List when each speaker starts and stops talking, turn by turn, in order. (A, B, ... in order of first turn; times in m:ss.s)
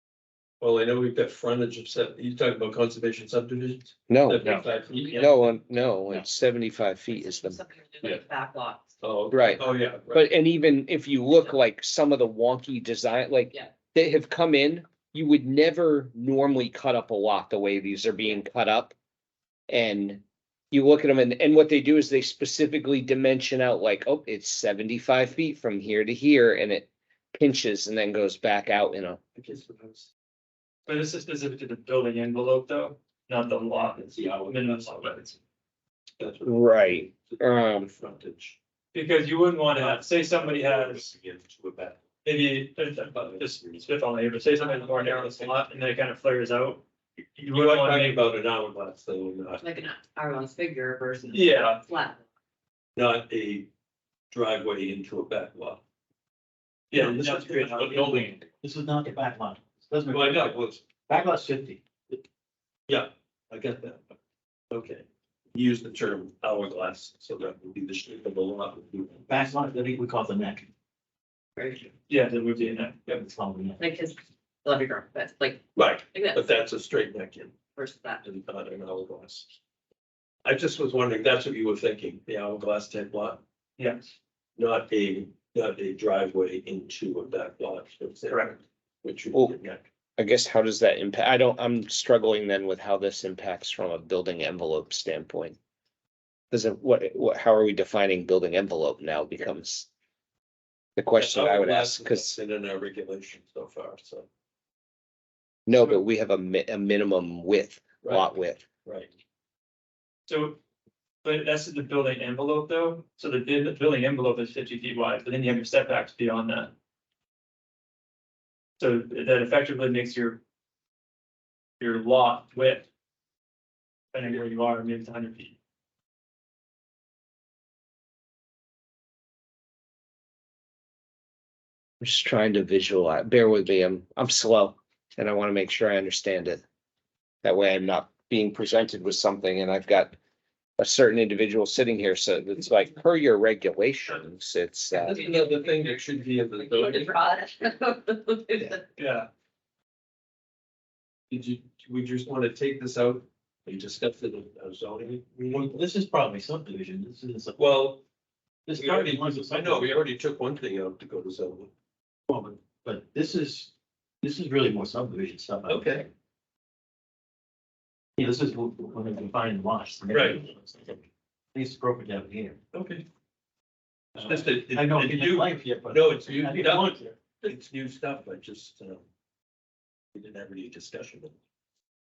0:00.6-0:05.6 A
0:04.1-0:07.6 B
0:04.5-0:05.3 C
0:07.1-0:09.0 C
0:09.0-0:10.3 A
0:09.3-0:19.0 B
0:19.7-0:29.2 B
0:29.4-0:30.1 A
0:30.9-0:35.4 D
0:34.0-0:35.2 A
0:36.2-0:38.6 A
0:36.4-0:37.9 B
0:38.9-0:41.1 D
0:39.7-0:42.0 A
0:42.2-0:46.8 D
0:43.0-0:43.9 A
0:44.7-0:45.6 A
0:47.4-0:48.2 D
0:47.5-0:49.6 A
0:49.6-0:52.2 C
0:51.3-0:51.8 D
0:53.0-0:53.7 A
0:54.3-0:55.8 A
0:56.9-0:58.4 D
0:56.9-0:58.4 A
0:58.0-1:01.8 E
1:00.1-1:00.8 A
1:02.9-1:04.0 A
1:04.7-1:09.3 A
1:09.3-1:10.7 E
1:11.6-1:11.9 C
1:12.1-1:13.2 D
1:13.1-1:13.8 E
1:13.8-1:16.5 C
1:15.8-1:17.5 A
1:17.8-1:18.2 C
1:18.2-1:19.5 A
1:20.4-1:23.4 A
1:23.8-1:24.2 D
1:24.6-1:29.8 A
1:28.3-1:28.6 D
1:30.2-1:35.6 B
1:36.5-1:39.9 B
1:41.0-1:42.4 B
1:41.2-1:44.3 A
1:45.7-1:48.6 B
1:45.7-1:46.0 D
1:48.0-1:48.3 A
1:48.8-1:49.1 A
1:50.3-1:50.6 D
1:51.2-1:56.7 D
1:58.8-2:00.4 D
2:01.8-2:02.9 D
2:04.1-2:05.6 D
2:12.0-2:16.6 B
2:17.4-2:20.2 B
2:20.8-2:25.2 B
2:25.0-2:27.2 A
2:25.0-2:28.9 C
2:29.0-2:29.3 D
2:31.3-2:35.8 A
2:35.5-2:37.6 E
2:37.6-2:38.0 A
2:38.7-2:40.0 E
2:38.8-2:41.7 A
2:42.3-2:46.1 E
2:45.7-2:46.1 A
2:48.2-2:52.6 E
2:50.1-2:50.4 A
2:52.7-2:53.1 A
2:54.2-2:57.1 E
2:54.2-2:59.1 A
3:00.2-3:01.4 A